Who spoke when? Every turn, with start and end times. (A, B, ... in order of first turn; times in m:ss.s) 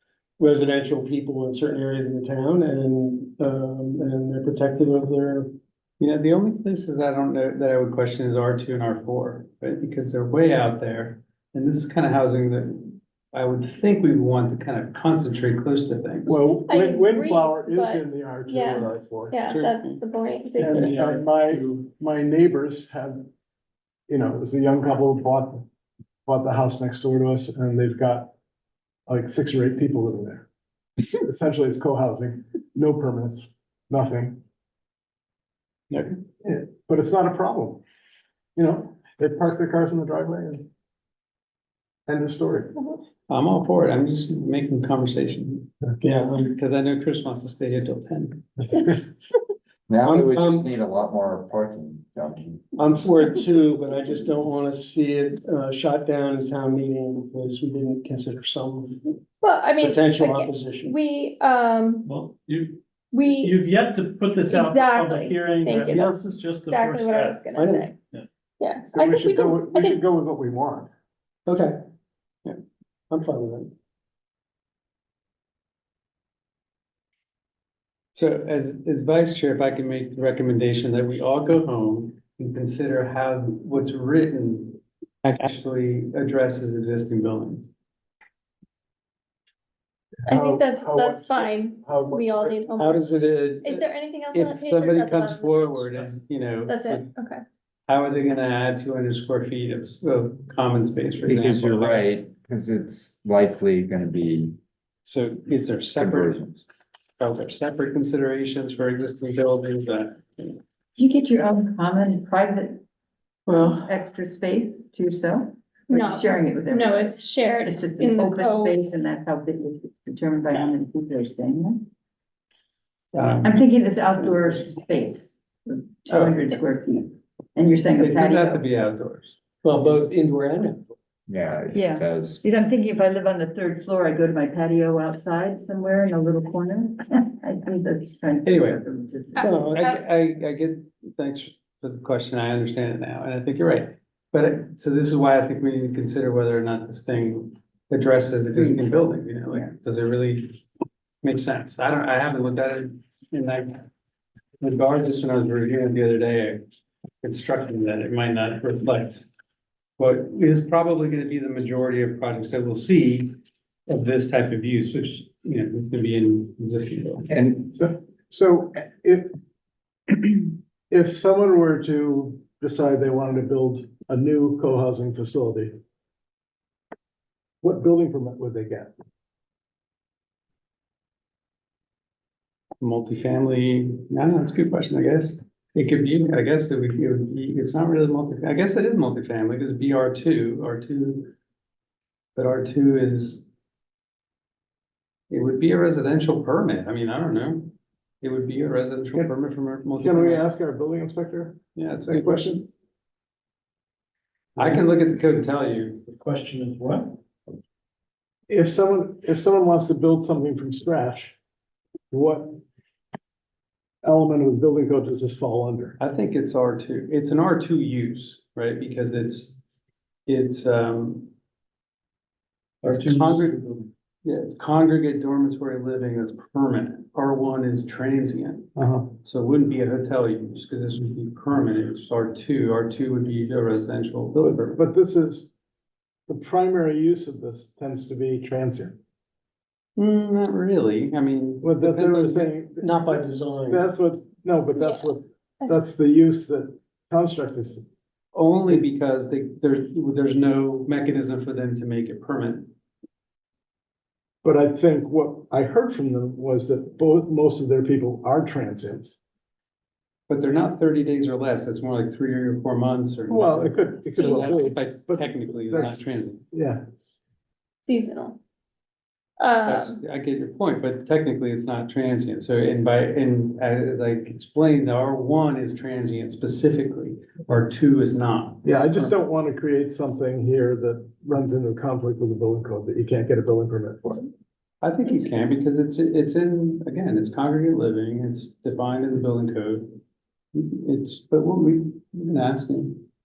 0:00.4-0:05.5 A
0:06.0-0:16.4 B
0:16.3-0:19.4 C
0:16.7-0:20.9 D
0:19.5-0:20.0 B
0:20.6-0:23.2 C
0:20.6-0:21.2 B
0:24.1-0:25.6 C
0:26.2-0:28.3 C
0:29.1-0:30.5 C
0:31.2-0:34.4 C
0:36.4-0:37.8 C
0:38.6-0:40.6 C
0:42.1-0:42.7 C
0:43.3-0:45.7 B
0:46.0-0:46.5 A
0:46.4-0:48.6 B
0:49.9-0:52.6 E
0:50.0-0:50.7 A
0:52.8-0:59.1 A
0:59.4-1:02.1 D
0:59.8-1:01.0 A
1:02.0-1:02.8 F
1:03.1-1:03.6 D
1:03.4-1:07.4 F
1:04.5-1:07.9 D
1:07.6-1:07.9 A
1:08.6-1:10.0 D
1:08.9-1:10.9 C
1:11.4-1:11.8 A
1:13.1-1:13.7 A
1:18.1-1:27.7 B
1:30.2-1:33.1 D
1:30.3-1:32.6 C
1:32.8-1:33.8 A
1:33.6-1:37.4 D
1:34.3-1:37.1 B
1:37.9-1:42.2 B
1:41.2-1:44.6 E
1:45.0-1:46.5 B
1:46.0-1:46.6 E
1:47.2-1:50.6 B
1:51.0-1:52.8 G
1:53.5-1:53.8 A
1:53.6-2:01.9 G
1:55.9-1:58.8 D
2:03.1-2:03.6 B
2:03.4-2:08.6 G
2:06.1-2:06.5 B
2:08.0-2:09.4 B
2:09.6-2:10.9 A
2:11.3-2:12.4 E
2:11.7-2:19.8 G
2:18.4-2:18.8 B
2:19.3-2:20.0 D
2:19.4-2:19.9 A
2:19.7-2:30.6 B
2:31.2-2:33.8 B
2:34.6-2:36.6 B
2:37.2-2:39.3 B
2:40.0-2:43.4 B
2:43.9-2:47.3 B
2:47.3-2:47.8 E
2:47.7-2:49.3 C
2:50.1-2:55.8 C
2:57.6-2:58.9 C
3:02.8-3:11.3 B
3:12.4-3:13.5 B
3:15.3-3:20.4 B
3:20.0-3:22.7 C
3:21.8-3:22.6 B
3:24.6-3:26.0 B
3:26.2-3:27.1 A
3:28.5-3:31.4 C
3:32.1-3:32.6 C
3:34.0-3:36.0 C
3:36.0-3:39.6 B
3:40.3-3:41.3 B
3:42.8-3:43.7 B
3:44.2-3:54.8 B
3:48.8-3:49.1 C
3:54.4-3:55.5 C
3:56.3-3:59.0 C
4:00.0-4:02.5 B
4:01.6-4:07.8 C
4:02.8-4:03.8 A
4:04.8-4:05.1 D
4:08.3-4:12.7 B
4:14.4-4:19.2 C
4:20.3-4:26.4 B
4:23.3-4:26.8 C
4:24.2-4:24.5 D
4:27.8-4:28.4 D
4:29.4-4:30.0 D
4:29.6-4:39.1 B
4:38.6-4:44.3 C
4:44.8-4:50.0 B
4:50.5-4:53.0 B